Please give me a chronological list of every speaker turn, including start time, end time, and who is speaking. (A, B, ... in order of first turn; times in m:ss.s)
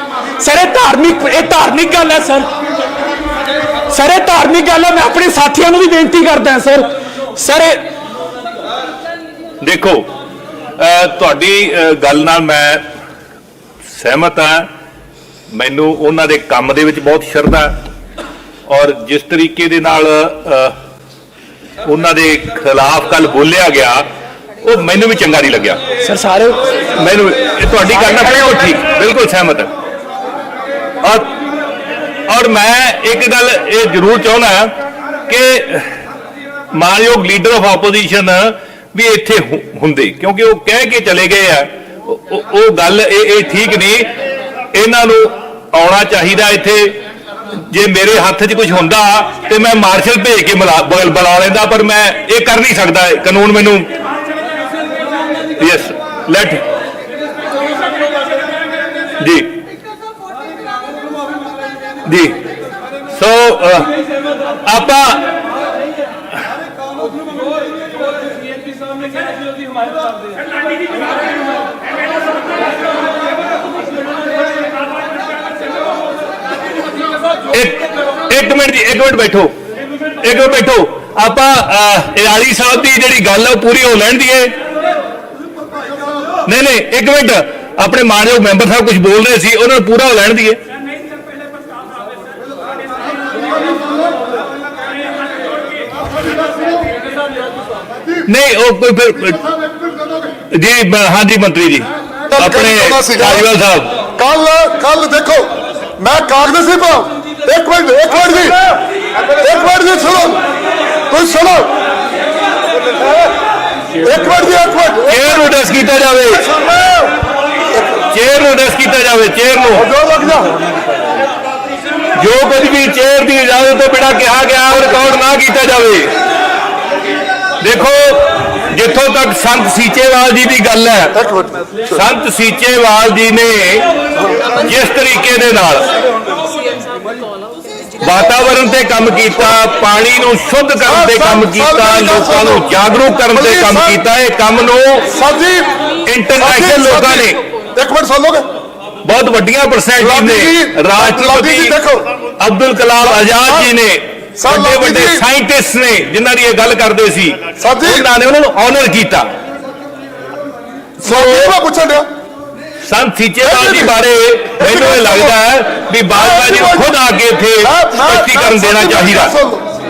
0:00.4-0:02.5 A
0:03.9-0:07.8 A
0:09.6-0:10.1 B
0:10.8-0:12.8 B
0:13.9-0:14.7 B
0:15.5-0:17.7 B
0:18.7-0:20.7 B
0:21.9-0:24.0 B
0:24.6-0:25.8 B
0:26.0-0:26.7 A
0:27.0-0:29.7 B
0:31.0-0:31.3 B
0:32.3-0:34.7 B
0:35.3-0:35.9 B
0:36.7-0:44.1 B
0:44.7-0:47.0 B
0:47.7-0:53.9 B
0:55.6-0:56.6 B
0:59.2-0:59.5 B
1:02.1-1:02.4 B
1:03.1-1:03.9 B
1:04.6-1:05.2 B
1:17.5-1:19.5 B
1:20.2-1:24.5 B
1:26.5-1:30.6 B
1:38.3-1:39.4 B
1:40.5-1:43.9 B
1:42.3-1:43.5 C
1:44.2-1:48.7 C
1:49.4-1:50.4 C
1:51.1-1:51.7 C
1:54.0-1:55.2 C
1:55.1-1:56.4 B
1:56.3-1:57.1 C
1:58.1-1:59.9 B
1:59.8-2:00.6 C
2:02.2-2:06.1 B
2:07.6-2:11.2 B
2:11.2-2:12.0 C
2:11.9-2:13.8 B
2:14.6-2:15.9 B
2:18.0-2:25.0 B
2:20.8-2:24.0 C
2:25.1-2:25.7 C
2:26.1-2:27.4 B
2:26.3-2:28.5 C
2:29.0-2:31.8 B
2:30.0-2:32.0 C
2:32.4-2:39.3 B
2:33.0-2:33.7 C
2:34.4-2:35.2 C
2:37.6-2:38.1 C
2:41.0-2:42.1 C
2:41.0-2:41.5 B
2:42.8-2:49.4 B
2:43.4-2:43.9 C
2:44.6-2:45.4 C
2:46.1-2:46.9 C
2:47.6-2:49.6 C